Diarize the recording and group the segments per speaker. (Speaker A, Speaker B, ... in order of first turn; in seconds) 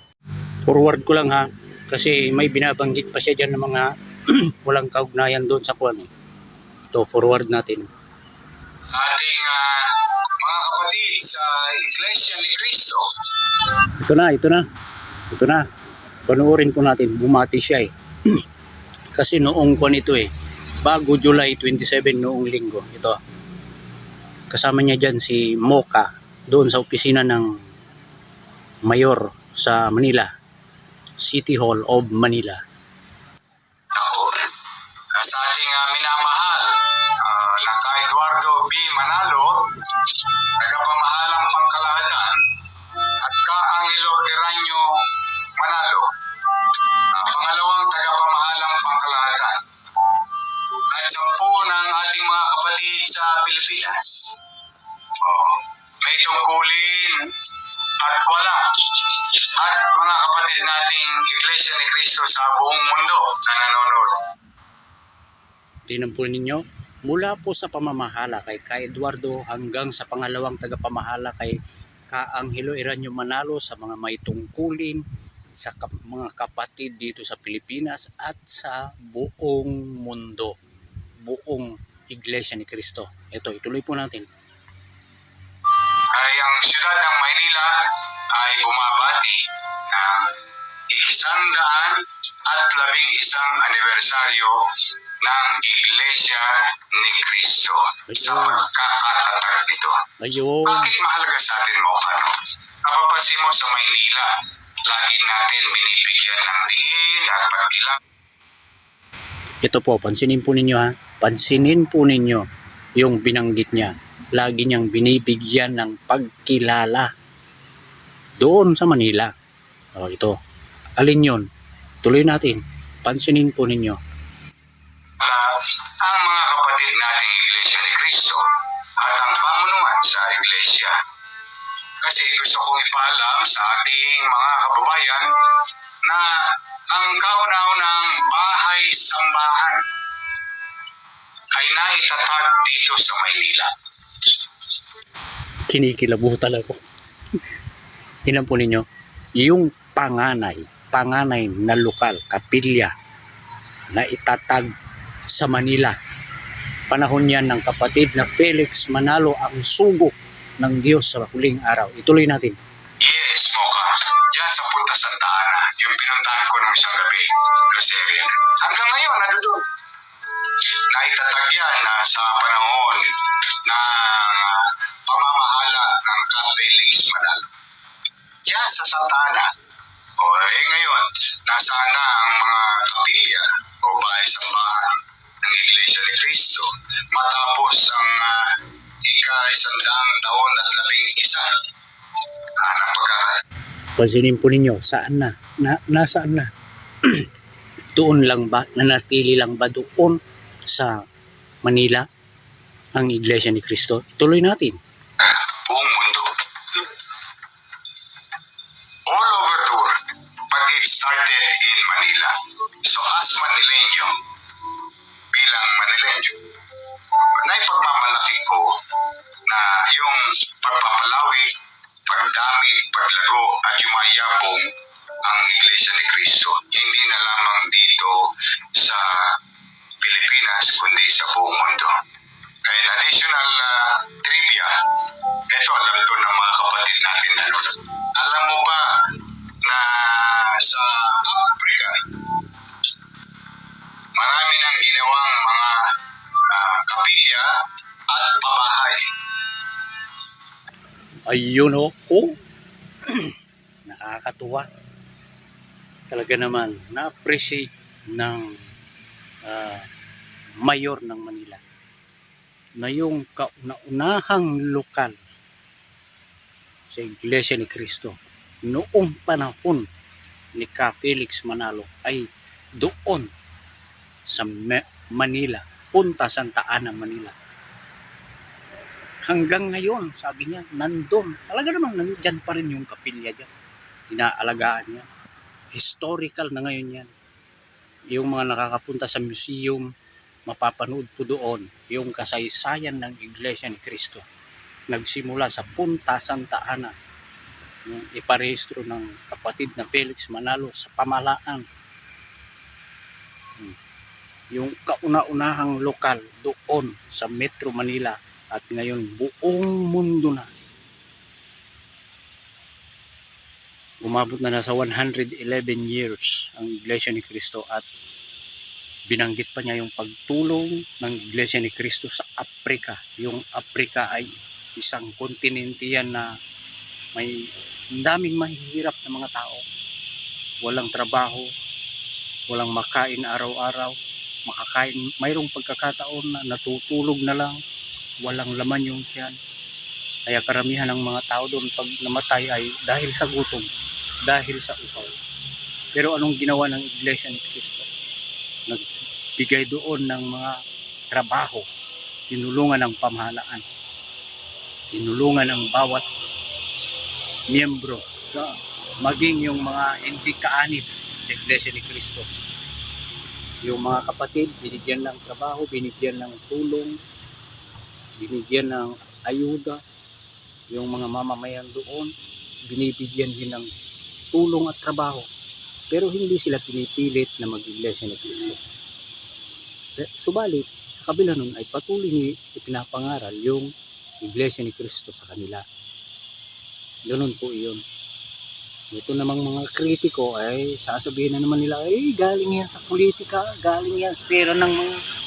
Speaker A: 0.6-6.1, 6.9-7.9, 14.0-14.6, 15.3-15.6, 16.3-18.4, 19.1-20.3, 20.8-23.2, 24.5-27.5, 28.8-30.3, 31.2-32.6, 65.9-71.5, 72.1-75.0, 75.6-80.5, 81.2-84.3, 98.1-98.7, 100.2-100.9, 109.6-112.4, 113.0-117.1, 118.4-119.3, 120.0-120.4, 121.0-121.5, 122.0-124.0, 145.7-146.8, 148.2-148.8, 149.4-152.9, 153.9-154.7, 155.3-155.9, 156.9-162.6, 194.0-196.5, 197.9-200.9, 201.6-202.1, 202.9-204.8, 251.3-252.3, 253.0-254.7, 256.1-258.6, 259.4-259.9, 260.6-261.6, 262.8-265.2, 266.9-269.9, 270.6-272.2, 272.8-273.3, 274.3-277.3, 279.2-283.5, 284.1-285.1, 285.7-287.1, 288.1-289.9, 290.5-294.2, 294.9-296.9, 297.9-301.6, 304.5-310.5, 314.0-317.9, 319.1-326.3, 327.1-329.6, 330.6-331.5, 332.5-337.6, 338.2-339.4, 340.3-343.7, 344.2-345.1, 345.9-347.9, 348.7-350.5, 351.1-351.6, 352.3-353.6, 354.9-356.0, 357.5-362.3, 363.6-366.9, 368.2-369.8, 370.7-372.1, 372.7-373.7, 374.3-375.3, 375.9-378.6, 380.0-383.7, 384.2-385.6, 387.1-387.8, 388.9-395.0
Speaker B: 8.9-9.8, 10.4-13.0, 33.9-34.5, 35.1-42.4, 43.2-44.8, 45.6-46.0, 47.1-49.5, 50.9-54.3, 55.2-57.3, 58.0-64.2, 86.1-87.7, 88.3-89.4, 89.9-90.3, 90.9-92.0, 92.5-94.5, 95.2-96.4, 96.9-100.0, 100.6-102.3, 102.8-104.3, 104.8-108.0, 125.2-125.5, 126.0-128.4, 129.0-130.9, 132.0-135.3, 136.0-136.3, 136.9-139.8, 141.5-143.7, 163.0-169.7, 170.9-173.1, 173.7-177.5, 178.4-179.5, 180.2-188.5, 189.0-191.4, 192.6-193.3, 205.2-206.9, 209.1-209.9, 210.5-214.1, 215.3-216.3, 217.4-218.7, 219.5-221.5, 222.1-224.6, 225.2-228.1, 228.8-229.2, 230.0-231.9, 232.7-234.7, 235.5-238.8, 239.6-242.0, 244.2-245.8, 246.4-247.4, 248.1-249.0